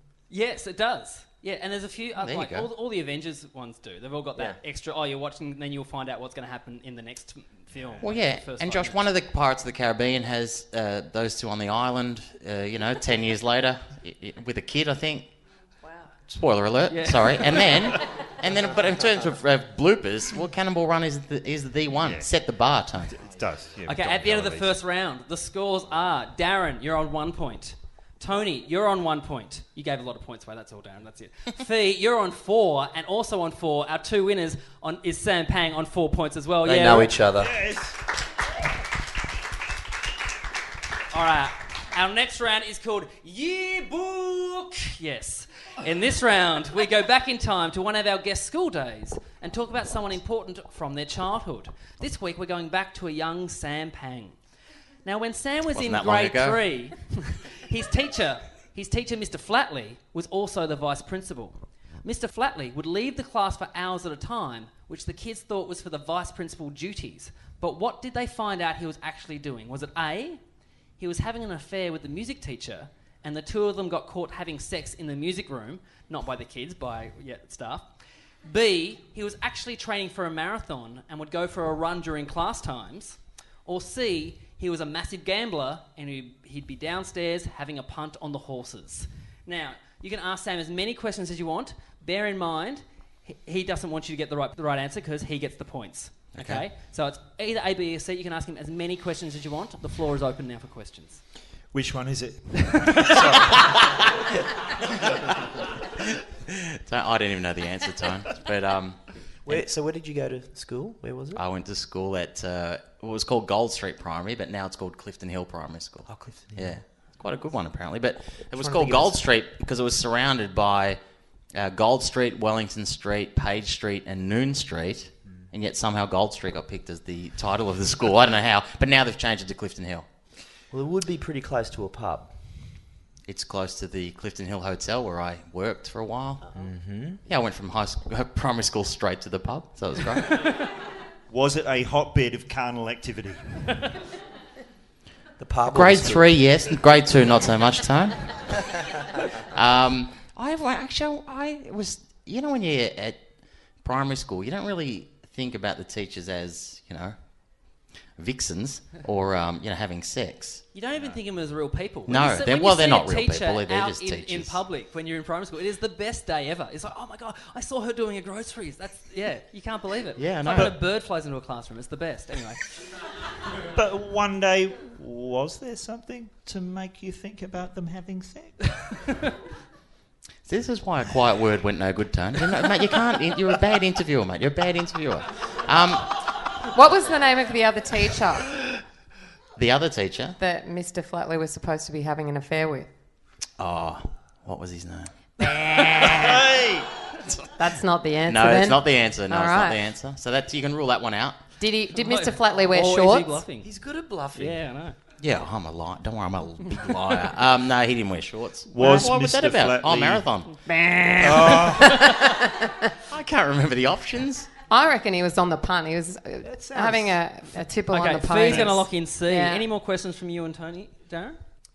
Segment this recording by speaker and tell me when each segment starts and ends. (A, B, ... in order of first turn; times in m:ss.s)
0:00.3-0:09.0 A
0:02.2-0:02.7 B
0:07.8-0:08.0 C
0:08.0-0:15.3 B
0:16.3-0:23.2 B
0:16.9-0:17.8 A
0:22.0-0:22.3 C
0:23.1-0:24.8 C
0:23.9-0:37.1 A
0:36.6-0:37.5 D
0:37.4-0:37.9 C
0:41.1-0:54.4 A
0:55.0-1:10.4 A
0:55.7-0:56.6 B
1:11.0-1:17.9 A
1:18.4-1:41.2 A
1:36.4-1:36.6 B
1:41.7-1:44.2 C
1:42.8-1:43.1 A
1:46.5-1:49.6 B
1:49.4-1:51.4 D
1:51.4-2:01.0 B
1:56.1-1:56.8 D
1:58.5-1:59.2 D
2:01.6-2:10.0 B
2:10.7-2:12.3 D
2:13.2-2:16.5 B
2:16.5-2:17.2 D
2:17.2-2:20.6 B
2:21.3-2:23.7 C
2:25.4-2:26.3 D
2:25.7-2:28.6 B
2:29.5-2:33.2 B
2:33.8-2:37.2 B
2:38.2-2:40.6 B
2:40.7-2:52.6 A
2:42.1-2:44.6 B
2:50.2-2:50.7 B
2:50.5-2:50.7 C
2:53.7-2:59.1 C
3:00.4-3:06.2 B
3:06.7-3:08.5 E
3:09.6-3:10.4 B
3:10.4-3:12.9 E
3:13.6-3:16.4 B
3:16.0-3:17.0 C
3:17.6-3:19.8 E
3:18.2-3:21.4 B
3:21.6-3:23.4 E
3:21.9-3:23.7 A
3:23.6-3:24.6 D
3:24.3-3:25.0 A
3:25.2-3:30.5 B
3:28.7-3:30.3 C
3:28.8-3:29.1 E
3:30.6-3:32.9 E
3:31.2-3:32.1 C
3:33.1-3:34.5 B
3:34.7-3:39.6 E
3:36.4-3:37.2 D
3:37.9-3:41.4 A